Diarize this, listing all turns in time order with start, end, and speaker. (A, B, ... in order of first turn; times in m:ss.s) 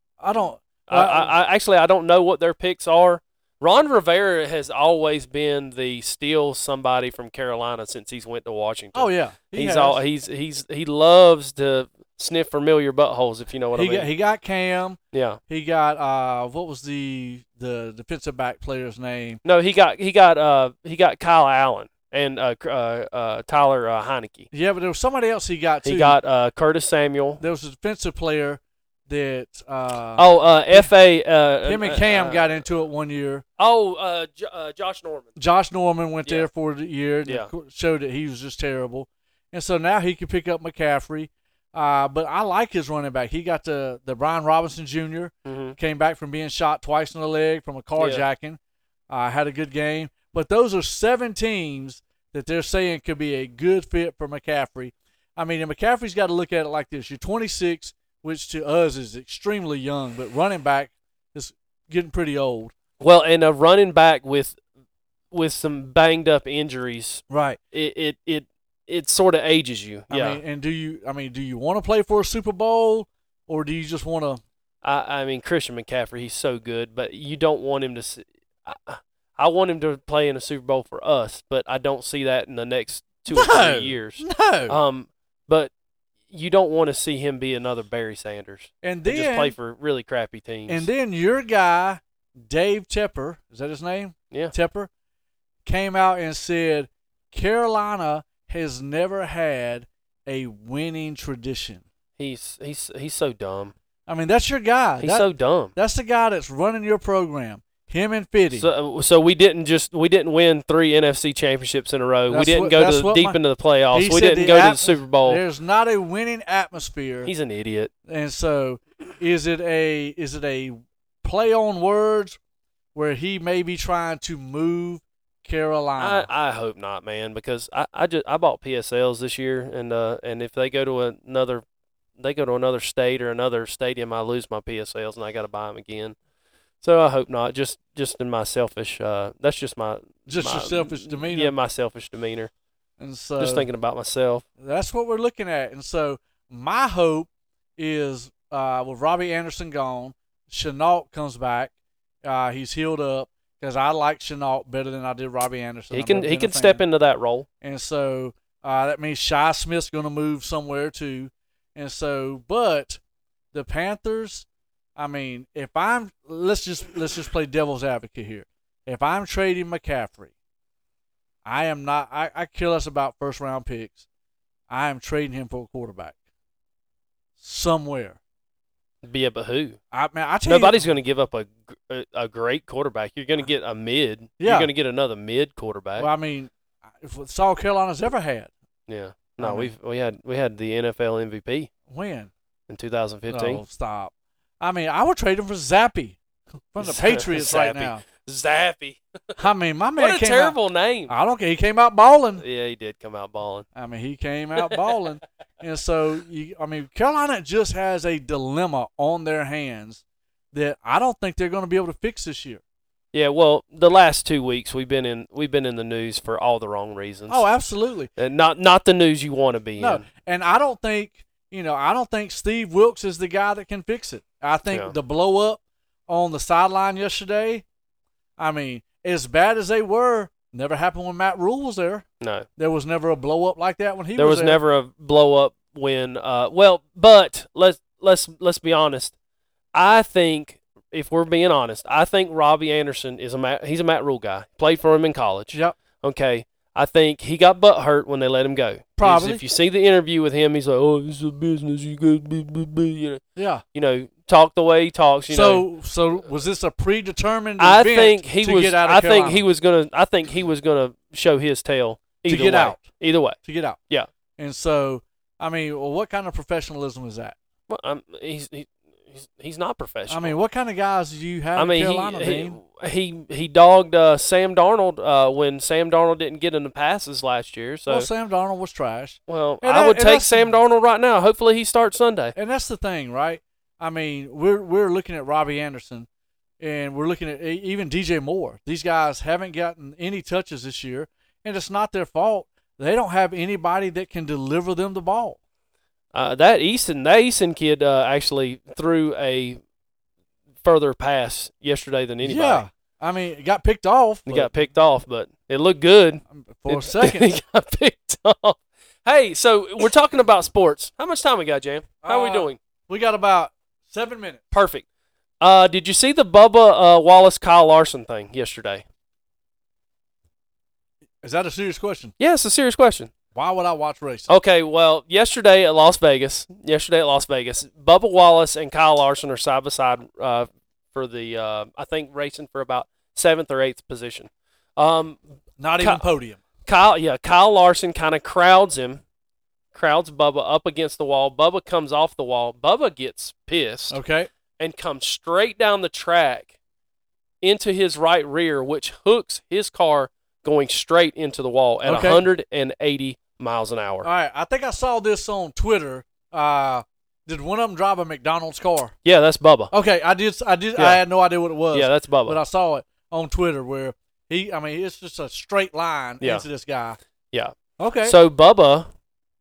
0:00.2-0:01.3 A
0:00.9-0:14.1 B
0:08.9-0:10.0 A
0:13.7-0:19.4 A
0:15.1-0:15.4 B
0:19.4-0:24.5 B
0:24.5-0:26.2 A
0:25.8-0:27.4 B
0:27.4-0:30.9 A
0:30.2-0:32.5 B
0:31.6-0:33.4 A
0:33.6-0:35.4 B
0:35.4-0:48.6 A
0:37.2-0:37.5 B
0:45.4-0:45.8 B
0:48.0-0:48.2 B
0:49.1-1:02.7 A
1:03.0-1:04.6 B
1:05.3-1:10.4 B
1:07.3-1:07.6 A
1:10.1-1:14.4 A
1:14.8-1:25.7 B
1:23.3-1:24.8 A
1:26.3-1:30.9 B
1:28.8-1:29.5 A
1:30.7-1:34.9 A
1:35.6-1:41.8 A
1:42.2-1:43.7 B
1:44.1-1:48.7 A
1:45.0-1:45.7 B
1:48.5-1:55.4 B
1:52.3-1:53.4 A
1:53.9-1:57.3 A
1:57.2-1:57.9 B
1:58.1-2:02.4 A
2:02.9-2:06.3 A
2:06.0-2:11.6 B
2:12.2-2:16.2 B
2:16.8-2:22.5 B
2:20.3-2:21.5 A
2:23.0-2:23.7 A
2:23.4-2:24.4 B
2:24.6-2:36.8 A
2:35.9-2:37.5 B
2:37.6-2:43.0 A
2:43.5-2:50.3 A
2:51.4-2:54.0 A
2:54.7-2:56.2 A
2:57.4-2:58.2 A
2:59.0-2:59.8 B
2:59.9-3:00.8 A
3:00.5-3:06.1 B
3:04.4-3:04.7 A
3:06.0-3:08.5 A
3:08.9-3:11.7 B
3:09.4-3:09.7 A
3:11.9-3:12.3 A
3:12.7-3:13.6 B
3:13.3-3:16.2 A
3:16.7-3:18.0 A
3:16.8-3:19.4 B
3:19.4-3:20.6 A
3:20.0-3:21.1 B
3:21.1-3:22.4 A
3:22.4-3:23.7 B
3:23.8-3:30.0 A
3:30.5-3:32.6 A
3:33.1-3:37.4 B
3:37.3-3:38.1 A
3:38.2-3:40.0 B
3:39.8-3:47.6 A
3:48.4-3:52.0 A
3:52.2-3:52.5 B
3:52.6-3:54.6 A
3:54.2-3:59.1 B
3:59.7-4:13.2 B
4:09.0-4:09.4 A
4:13.4-4:13.6 A
4:13.7-4:15.7 B
4:15.3-4:19.4 A
4:17.6-4:23.4 B
4:22.2-4:22.9 A
4:23.4-4:23.8 A
4:24.4-4:27.4 A
4:27.7-4:30.4 B
4:30.1-4:32.6 A
4:31.6-4:38.1 B
4:37.9-4:40.6 A
4:39.3-4:42.3 B
4:42.4-4:46.1 A
4:46.6-4:55.4 A
4:56.1-4:59.6 B
5:00.6-5:02.6 B
5:02.2-5:04.5 A
5:04.3-5:12.6 B
5:06.3-5:07.3 A
5:12.0-5:14.4 A
5:14.5-5:14.8 B
5:15.4-5:18.8 B
5:21.2-5:22.1 A
5:22.2-5:23.1 B
5:23.4-5:24.3 A
5:24.3-5:35.2 B
5:35.6-5:36.4 A
5:35.8-5:36.0 B
5:36.6-5:39.0 B
5:39.7-5:44.0 B
5:43.9-5:44.3 A
5:44.6-5:46.5 B
5:47.4-5:54.1 B
5:51.8-5:52.2 A
5:54.0-5:58.9 A
5:59.0-5:59.7 B
5:59.7-6:07.0 A
6:00.8-6:01.0 B
6:01.7-6:02.4 B
6:07.3-6:08.9 B
6:07.8-6:08.2 A